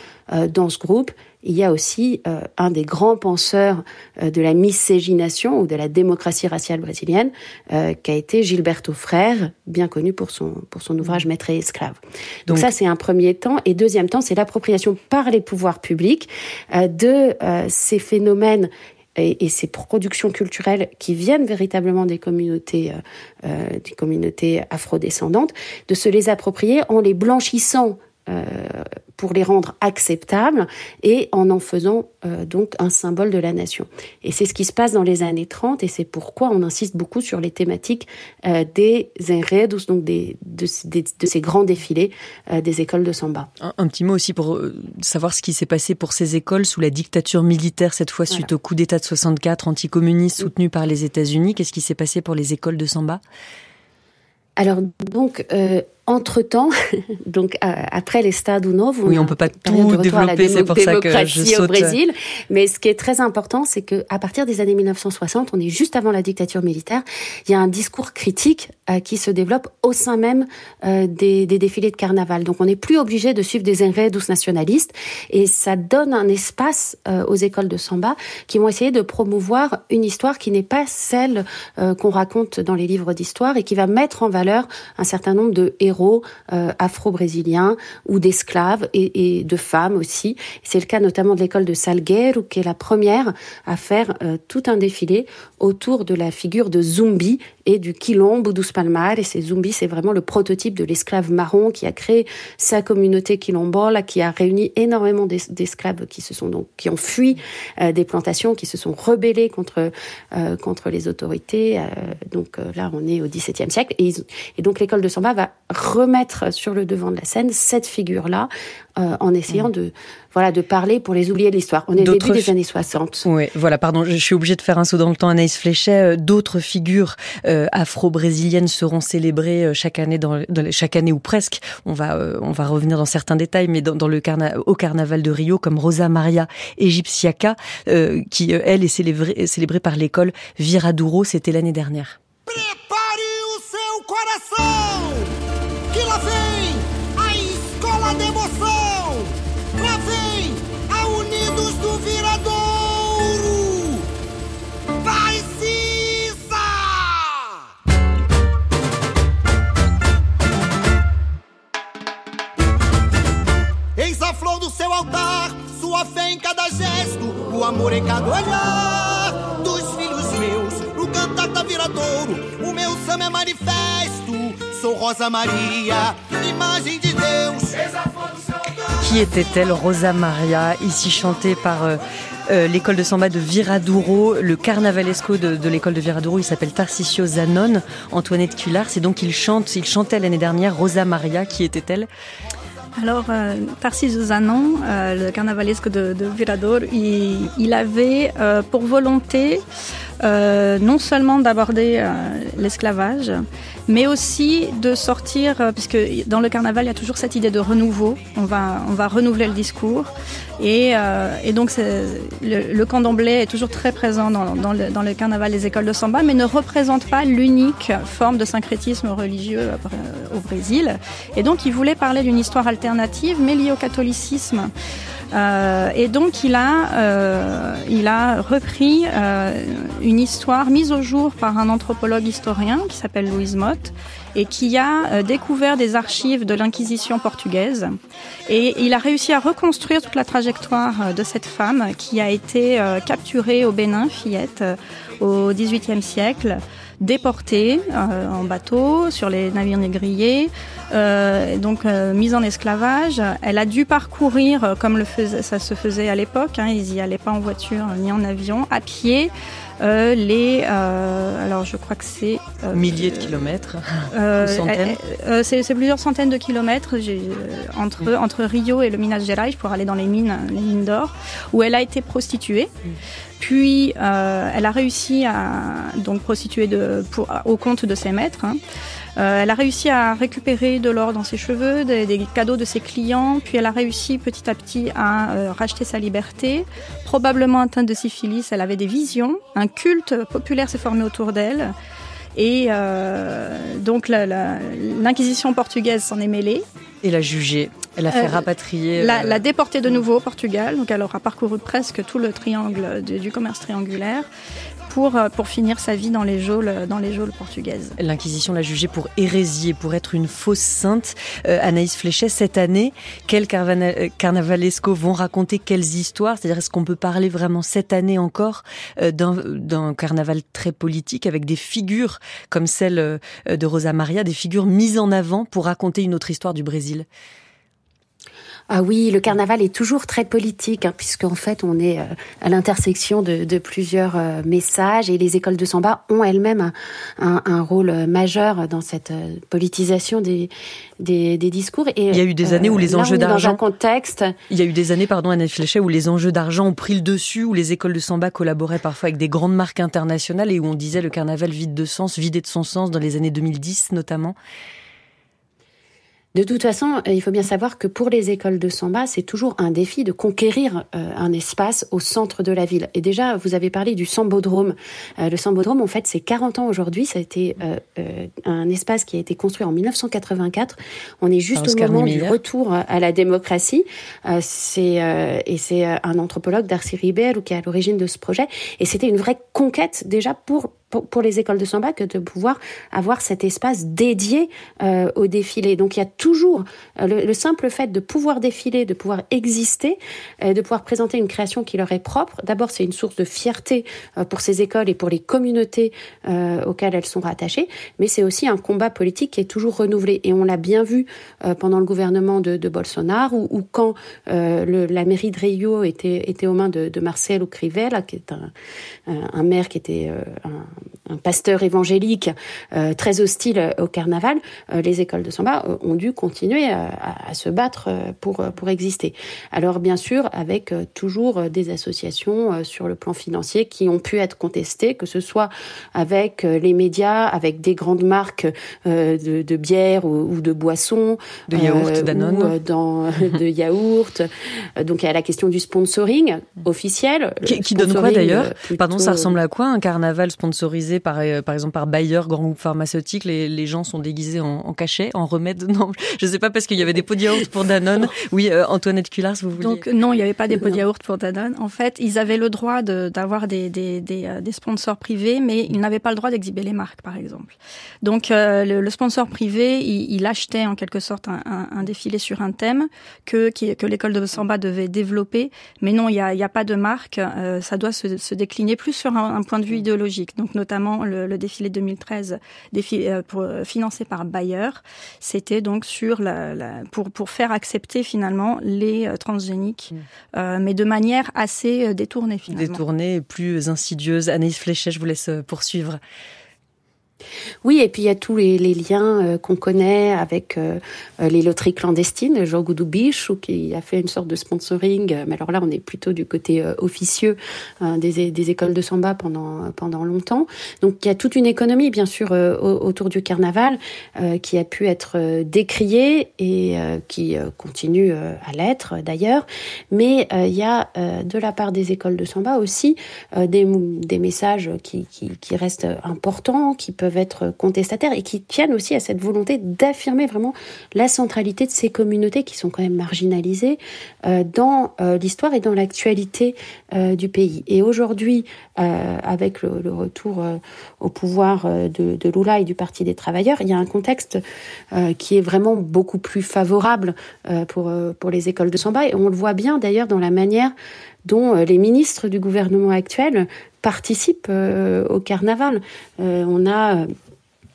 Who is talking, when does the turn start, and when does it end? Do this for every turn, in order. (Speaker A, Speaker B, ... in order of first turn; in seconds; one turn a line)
Speaker A: 0.3-43.5
Speaker B: 43.6-53.2
Speaker A: 54.6-56.7
Speaker A: 57.2-123.2
Speaker B: 59.0-62.0
Speaker B: 122.0-122.5
Speaker B: 123.2-142.2
Speaker C: 142.5-145.3
Speaker C: 145.9-154.1
Speaker C: 155.0-157.5
Speaker C: 163.9-177.8
Speaker B: 179.0-192.1
Speaker D: 193.0-199.6
Speaker D: 200.2-224.7
Speaker D: 225.3-237.9
Speaker D: 238.5-263.5
Speaker B: 262.7-265.0
Speaker D: 264.1-272.7
Speaker D: 273.4-278.6
Speaker D: 279.1-291.7
Speaker D: 292.4-296.6
Speaker B: 297.0-299.4
Speaker D: 298.1-298.4
Speaker D: 299.0-304.3
Speaker D: 304.9-307.9
Speaker B: 308.0-327.1
Speaker A: 328.7-344.3
Speaker B: 342.1-343.6
Speaker B: 344.5-354.4
Speaker A: 356.3-408.5
Speaker B: 371.5-372.4
Speaker A: 409.1-439.3
Speaker B: 431.5-432.5
Speaker B: 437.4-449.8
Speaker D: 449.6-482.8
Speaker B: 482.5-486.0
Speaker A: 487.6-534.4
Speaker A: 534.9-540.7
Speaker A: 541.2-547.1